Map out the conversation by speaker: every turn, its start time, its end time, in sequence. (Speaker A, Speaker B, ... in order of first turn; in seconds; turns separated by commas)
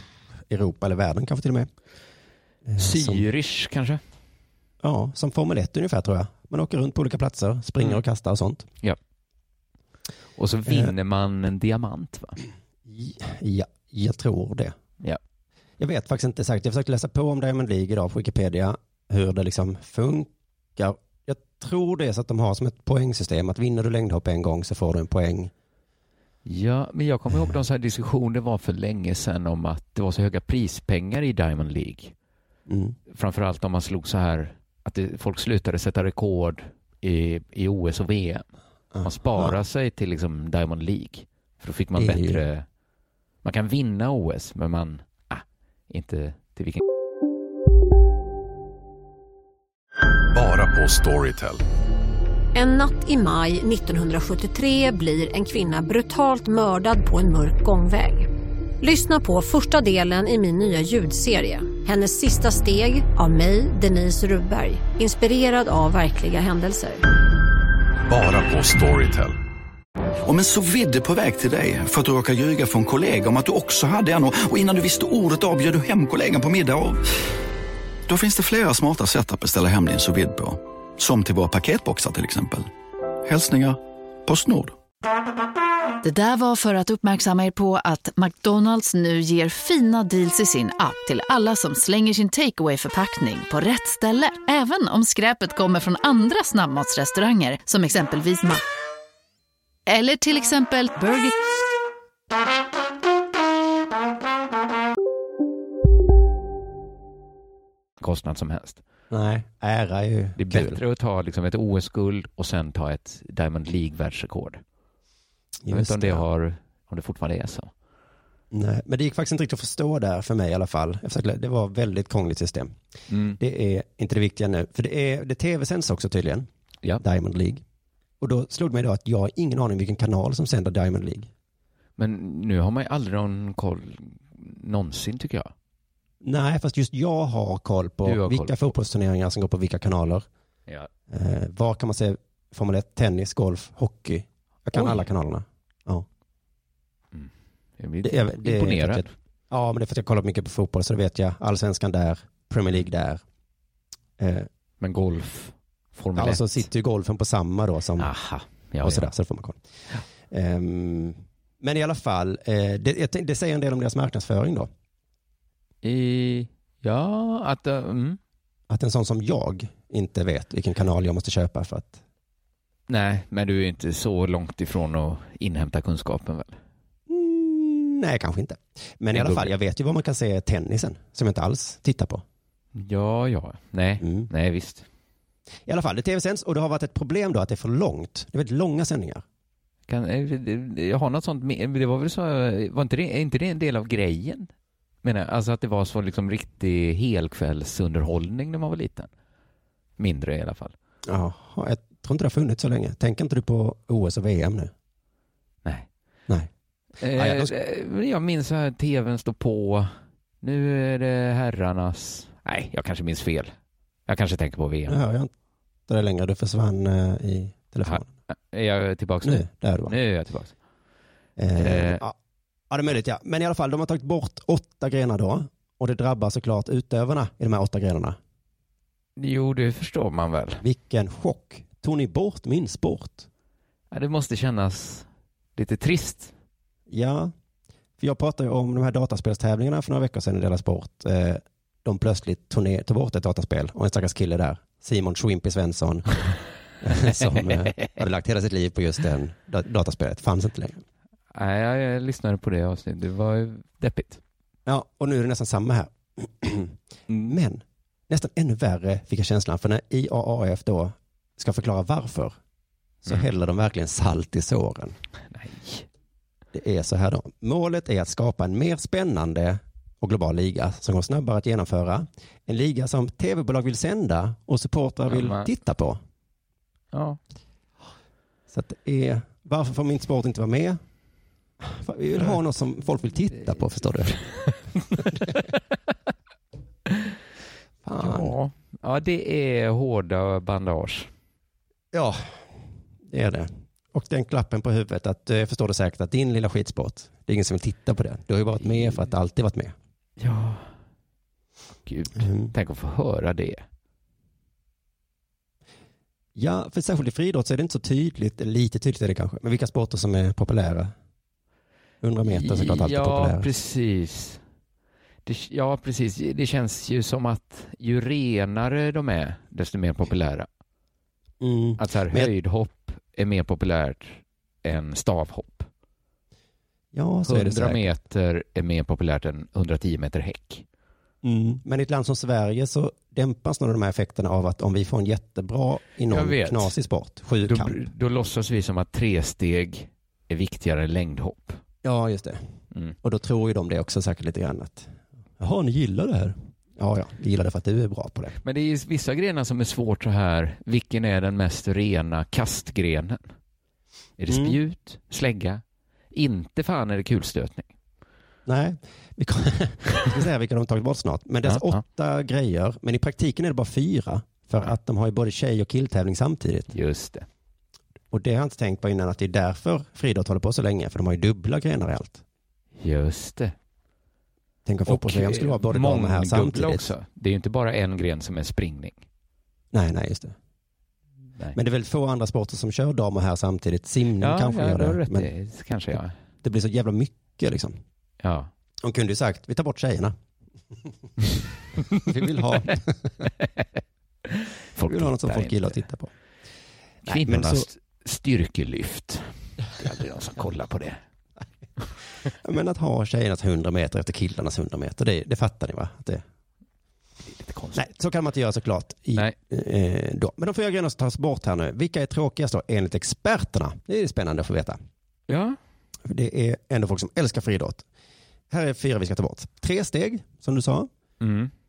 Speaker A: 0.5-1.7, Speaker A: 2.6-3.2, Speaker B: 2.8-4.0, Speaker A: 4.8-8.7, Speaker B: 10.4-12.4, Speaker A: 10.7-10.9, Speaker A: 12.8-14.7, Speaker A: 15.8-25.5, Speaker B: 26.4-32.1, Speaker A: 32.7-33.0, Speaker B: 33.1-38.5, Speaker A: 38.9-39.5, Speaker B: 39.0-42.6, Speaker A: 42.0-42.4, Speaker B: 43.4-46.8, Speaker C: 50.3-51.6, Speaker D: 52.5-58.3, Speaker D: 58.8-67.0, Speaker C: 68.1-69.4, Speaker E: 70.2-77.0, Speaker E: 78.1-82.7, Speaker E: 83.2-84.8, Speaker F: 86.0-98.6, Speaker F: 99.9-101.4, Speaker B: 108.0-108.8, Speaker A: 109.1-110.8, Speaker B: 110.4-114.6, Speaker A: 115.6-116.2, Speaker B: 115.7-117.7, Speaker A: 118.5-122.8, Speaker B: 123.1-123.4, Speaker A: 123.4-126.5, Speaker A: 127.0-127.6, Speaker A: 128.2-131.3, Speaker B: 132.0-135.5, Speaker A: 136.2-140.3, Speaker B: 138.1-138.7, Speaker A: 141.1-146.1, Speaker B: 144.7-145.1, Speaker B: 147.1-149.1, Speaker A: 148.0-153.2, Speaker A: 154.2-154.5, Speaker B: 154.8-156.7, Speaker A: 156.2-158.1, Speaker B: 158.0-159.1, Speaker A: 158.8-159.6, Speaker A: 160.3-164.7, Speaker B: 165.8-168.2, Speaker A: 168.7-172.0, Speaker B: 172.9-176.6, Speaker A: 177.1-182.2, Speaker B: 179.1-179.5, Speaker B: 182.8-184.9, Speaker A: 184.0-184.3, Speaker A: 185.7-189.2, Speaker B: 189.9-194.5, Speaker B: 195.0-199.1, Speaker B: 200.0-200.7, Speaker A: 201.1-204.7, Speaker B: 207.0-213.6, Speaker A: 207.1-207.5, Speaker B: 214.1-215.0, Speaker A: 214.9-215.3, Speaker A: 215.9-218.1, Speaker B: 217.8-220.6, Speaker A: 219.2-219.9, Speaker A: 221.4-222.2, Speaker B: 221.6-222.0, Speaker A: 222.7-228.2, Speaker B: 229.2-230.6, Speaker A: 230.6-233.3, Speaker B: 233.9-236.3, Speaker A: 236.9-237.3, Speaker A: 238.0-246.2, Speaker A: 246.8-250.8, Speaker B: 247.1-247.9, Speaker B: 251.3-254.2, Speaker A: 254.7-262.4, Speaker B: 257.1-257.4, Speaker A: 263.1-265.0, Speaker B: 265.3-265.9, Speaker A: 266.5-276.0, Speaker B: 275.1-275.5, Speaker B: 276.9-277.2, Speaker A: 278.5-280.8, Speaker A: 281.6-284.2, Speaker A: 287.8-288.4, Speaker B: 288.0-291.1, Speaker A: 291.9-292.5, Speaker A: 293.0-299.7, Speaker B: 298.6-299.1, Speaker B: 300.2-300.7, Speaker B: 301.9-303.6, Speaker A: 302.2-302.5, Speaker A: 306.4-310.9, Speaker A: 312.0-313.5, Speaker B: 312.3-314.4, Speaker B: 315.3-320.5, Speaker A: 321.4-322.3, Speaker B: 321.8-325.7, Speaker A: 326.9-327.9, Speaker B: 327.2-330.6, Speaker A: 331.2-337.8, Speaker B: 336.1-336.7, Speaker B: 337.4-341.6, Speaker A: 341.8-342.4, Speaker A: 343.0-348.4, Speaker B: 348.4-353.3, Speaker B: 354.2-355.6, Speaker A: 354.3-354.6, Speaker B: 356.1-357.7, Speaker A: 358.5-366.7, Speaker B: 361.4-361.8, Speaker B: 366.7-367.3, Speaker A: 368.1-372.2, Speaker B: 372.8-373.5, Speaker A: 374.7-376.9, Speaker B: 374.9-379.0, Speaker A: 379.7-380.4, Speaker A: 381.5-385.3, Speaker B: 384.2-386.1, Speaker A: 386.4-387.8, Speaker B: 388.2-388.5, Speaker A: 388.8-390.1, Speaker A: 391.9-393.1, Speaker B: 394.3-395.8, Speaker A: 394.9-396.1, Speaker A: 397.1-397.7, Speaker B: 397.1-401.0, Speaker A: 402.4-406.2, Speaker B: 407.3-407.9, Speaker A: 407.8-414.8, Speaker B: 415.3-415.6, Speaker A: 416.1-417.8, Speaker A: 418.5-420.9, Speaker B: 421.2-421.5